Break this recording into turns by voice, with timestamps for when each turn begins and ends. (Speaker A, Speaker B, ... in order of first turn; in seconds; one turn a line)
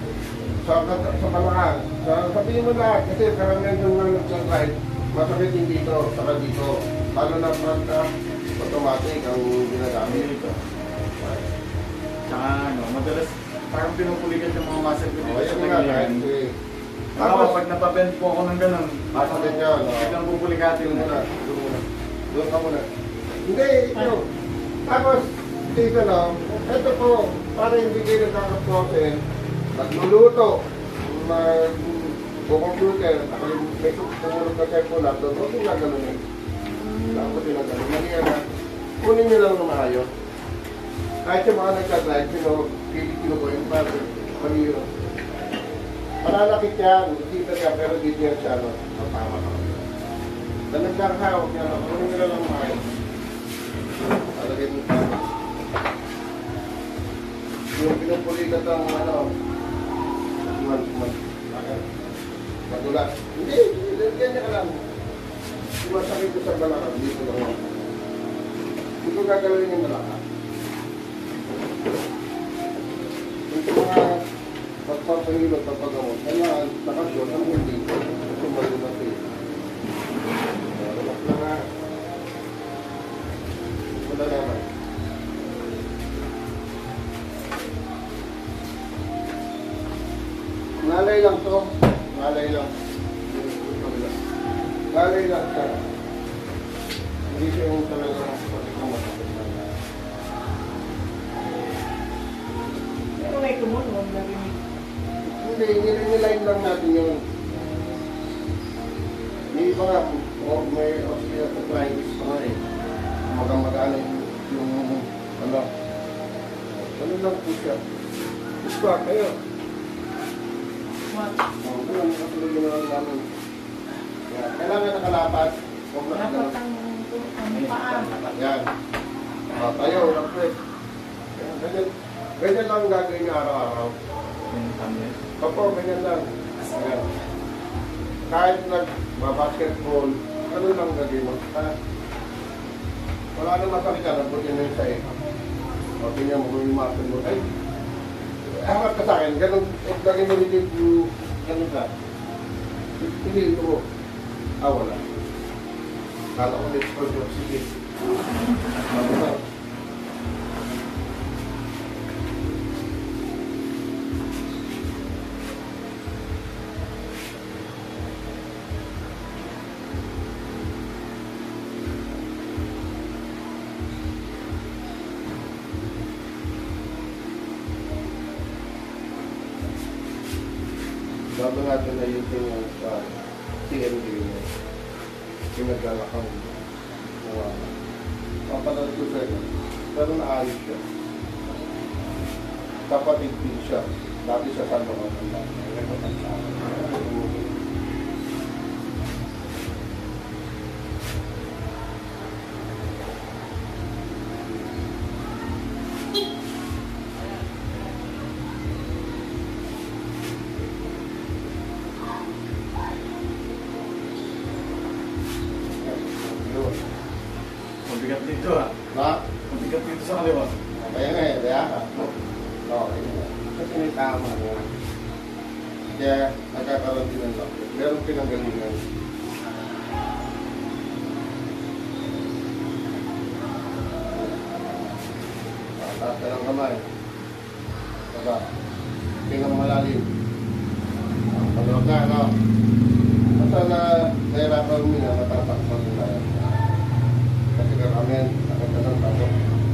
Speaker A: 0.6-10.3
Speaker B: 10.0-10.6
Speaker B: 12.3-16.3
Speaker A: 15.2-16.5
Speaker A: 17.1-17.6
Speaker B: 17.2-21.3
Speaker A: 19.1-20.2
Speaker A: 20.8-22.8
Speaker A: 23.4-24.3
Speaker A: 24.9-29.2
Speaker A: 29.7-36.2
Speaker C: 36.7-37.3
Speaker A: 37.0-38.4
Speaker A: 39.0-40.1
Speaker A: 41.2-44.9
Speaker A: 46.2-49.8
Speaker A: 50.7-52.8
Speaker A: 54.3-55.2
Speaker A: 57.8-59.3
Speaker A: 60.4-61.8
Speaker A: 62.7-64.8
Speaker A: 65.8-67.7
Speaker A: 69.0-70.2
Speaker A: 73.5-74.1
Speaker A: 74.8-79.2
Speaker A: 80.7-81.6
Speaker A: 84.0-84.7
Speaker A: 90.8-92.7
Speaker A: 93.3-94.1
Speaker A: 94.9-95.8
Speaker A: 97.3-99.6
Speaker C: 103.2-104.5
Speaker A: 105.2-107.2
Speaker A: 109.5-112.6
Speaker A: 113.3-115.7
Speaker A: 116.8-117.8
Speaker A: 118.6-119.3
Speaker C: 121.1-121.3
Speaker A: 121.6-123.2
Speaker A: 124.3-126.6
Speaker C: 126.1-128.1
Speaker B: 127.5-128.3
Speaker A: 128.2-128.7
Speaker A: 129.5-130.6
Speaker A: 131.3-133.9
Speaker B: 134.5-135.2
Speaker A: 135.4-137.1
Speaker A: 138.3-141.7
Speaker A: 143.3-145.2
Speaker A: 146.0-147.5
Speaker A: 148.5-151.9
Speaker A: 153.0-153.8
Speaker A: 154.6-155.0
Speaker A: 156.3-157.7
Speaker A: 158.8-159.4
Speaker A: 181.3-184.5
Speaker A: 185.5-186.6
Speaker A: 187.2-187.7
Speaker A: 188.5-190.8
Speaker A: 192.9-197.6
Speaker A: 215.8-216.8
Speaker B: 217.8-218.7
Speaker A: 218.9-219.2
Speaker B: 219.5-220.6
Speaker A: 220.7-222.1
Speaker A: 222.6-224.7
Speaker A: 225.9-228.8
Speaker A: 235.8-236.9
Speaker A: 238.1-238.5
Speaker A: 239.3-240.1
Speaker A: 241.3-242.3
Speaker A: 243.4-246.6
Speaker A: 247.5-249.4